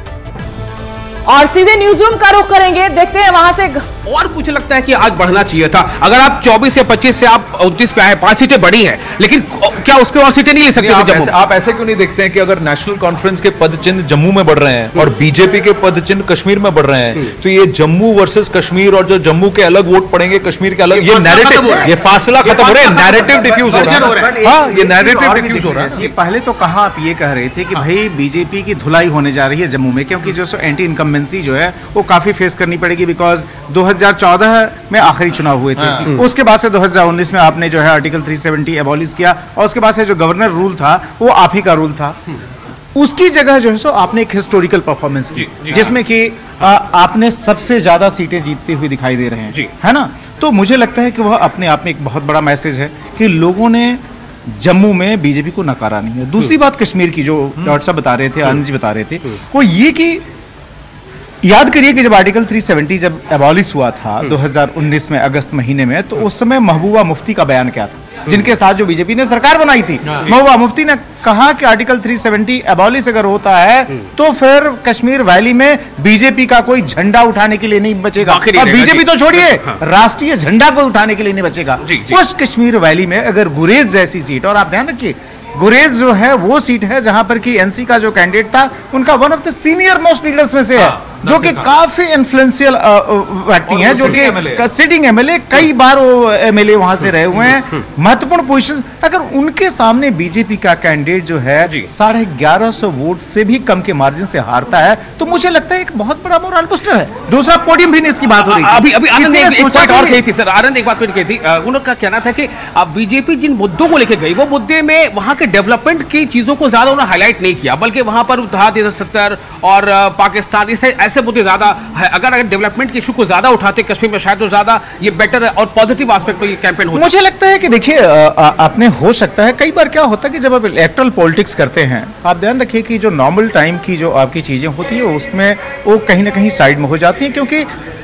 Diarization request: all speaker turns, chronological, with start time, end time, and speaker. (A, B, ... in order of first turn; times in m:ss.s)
0:01.3-0:03.9 A
0:04.1-0:11.4 B
0:10.8-0:26.1 C
0:20.9-0:24.5 B
0:23.9-0:42.2 D
0:35.8-0:36.1 C
0:43.0-1:00.2 D
0:45.4-0:46.0 B
0:57.6-0:57.8 C
1:01.4-1:50.2 D
1:18.2-1:19.8 B
1:21.8-1:22.2 B
1:30.8-1:31.7 C
1:33.7-1:34.7 C
1:48.4-2:07.1 B
2:06.9-2:17.7 D